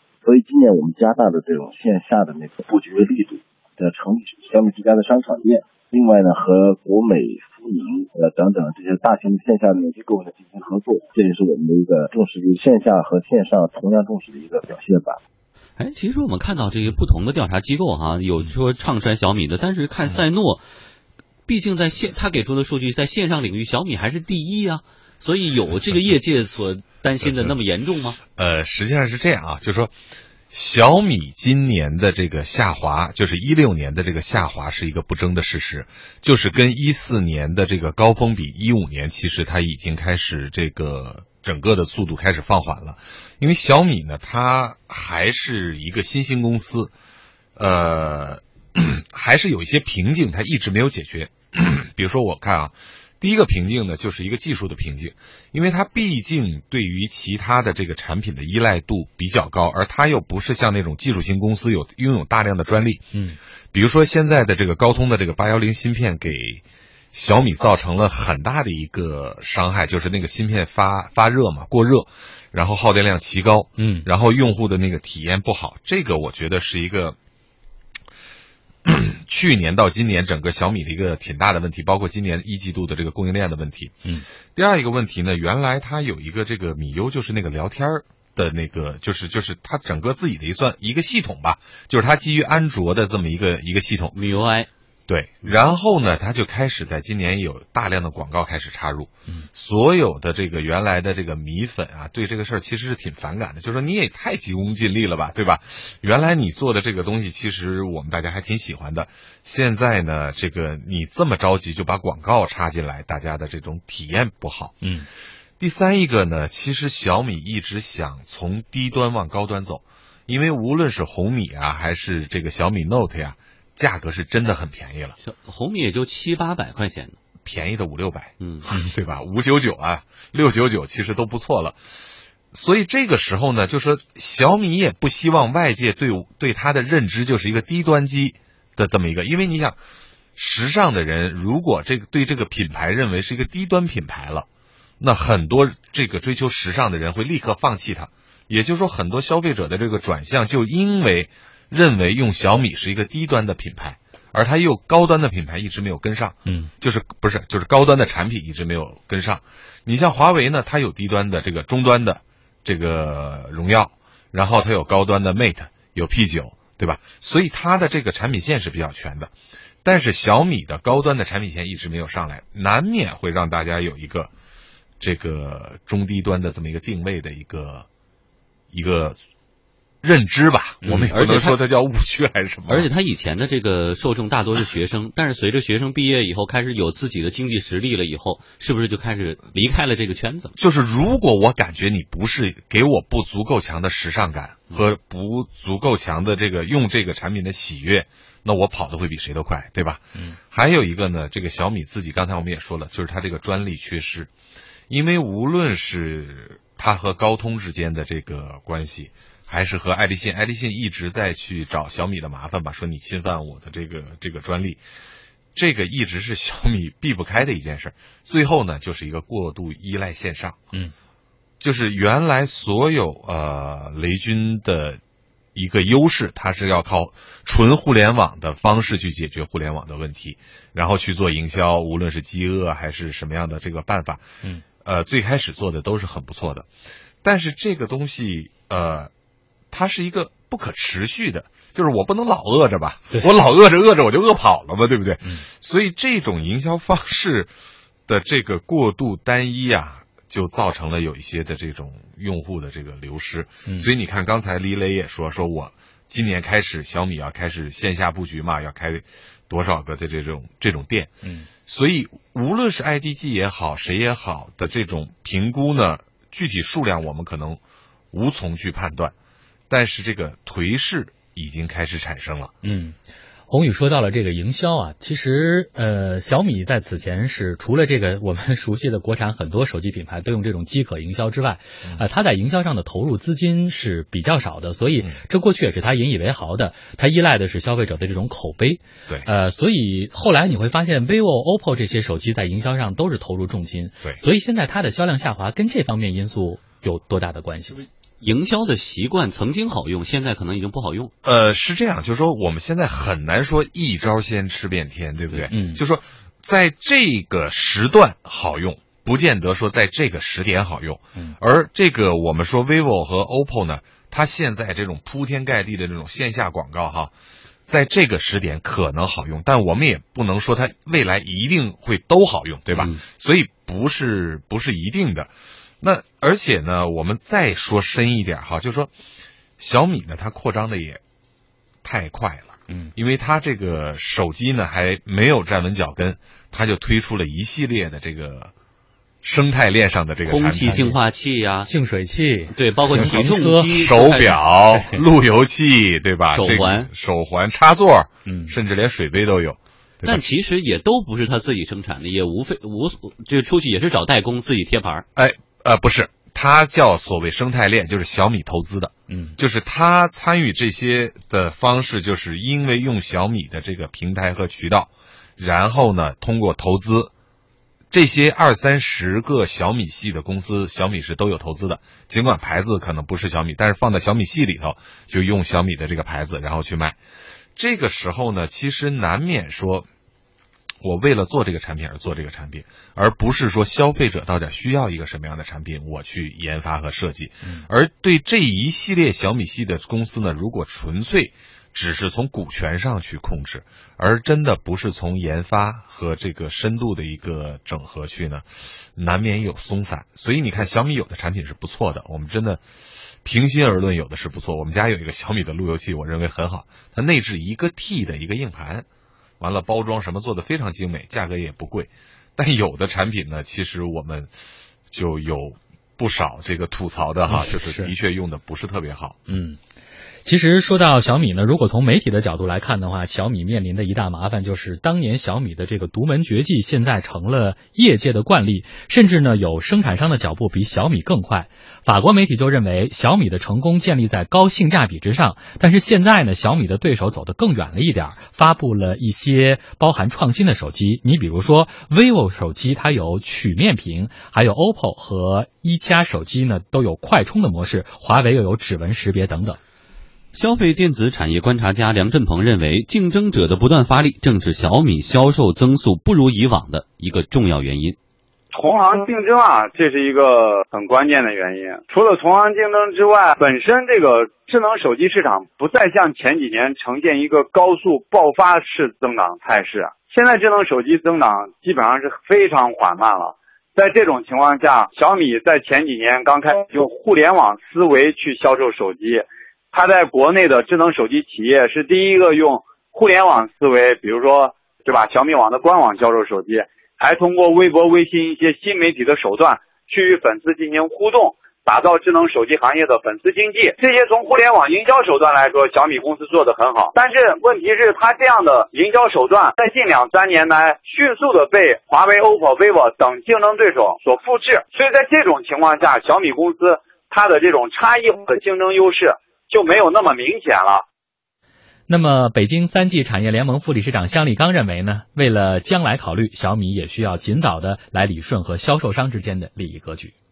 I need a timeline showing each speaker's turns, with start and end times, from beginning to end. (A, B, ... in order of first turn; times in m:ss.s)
0:00.2-0:15.2 A
0:15.8-0:20.6 B
0:21.5-0:28.2 B
0:27.2-0:27.5 C
0:28.3-0:29.9 C
0:30.5-0:46.9 C
0:47.6-1:03.0 C
1:03.1-1:03.4 D
1:03.7-1:17.2 C
1:13.8-1:14.1 D
1:18.8-1:24.0 C
1:24.5-1:34.2 C
1:34.1-1:34.7 B
1:35.1-1:54.8 C
1:54.8-1:55.1 D
1:55.6-2:05.2 C
2:05.2-2:07.2 B
2:07.4-2:11.8 C
2:08.4-2:08.7 B
2:12.5-2:19.8 C
2:20.4-2:24.5 C
2:25.0-2:49.3 C
2:36.4-2:36.7 D
2:49.8-2:54.3 C
2:55.0-2:57.9 C
2:58.7-2:59.2 C
3:00.0-3:02.9 C
3:00.8-3:01.6 B
3:02.7-3:10.5 B
3:10.6-3:24.3 C
3:24.9-3:34.8 C
3:35.5-3:40.6 C
3:41.6-3:45.0 C
3:45.5-3:54.2 C
3:54.8-3:56.7 C
3:57.2-3:59.1 C
3:59.7-4:07.5 C
4:08.1-4:27.6 C
4:21.2-4:21.5 D
4:28.1-4:29.1 C
4:29.7-4:32.5 C
4:32.6-4:33.0 D
4:33.5-4:57.9 D
4:58.2-5:01.1 B
5:01.2-5:17.1 C
5:05.5-5:05.8 D
5:17.6-5:28.9 C
5:22.7-5:23.0 B
5:29.6-5:31.0 C
5:31.8-5:38.5 C
5:39.2-5:41.0 C
5:40.2-5:41.7 B
5:41.6-5:43.8 D
5:42.5-5:44.4 B
5:43.7-5:50.2 C
5:44.7-5:45.0 D
5:46.3-5:46.9 B
5:48.2-5:48.5 D
5:50.0-5:55.0 B
5:55.2-6:07.1 C
6:07.9-6:17.0 C
6:17.6-6:19.9 C
6:20.8-6:42.6 C
6:43.2-6:48.8 C
6:49.4-6:54.3 C
6:54.9-6:59.2 C
6:57.3-6:57.9 D
6:59.3-6:59.6 D
7:00.2-7:29.6 D
7:30.3-7:38.0 B
7:38.5-8:30.8 E
8:31.9-8:40.1 D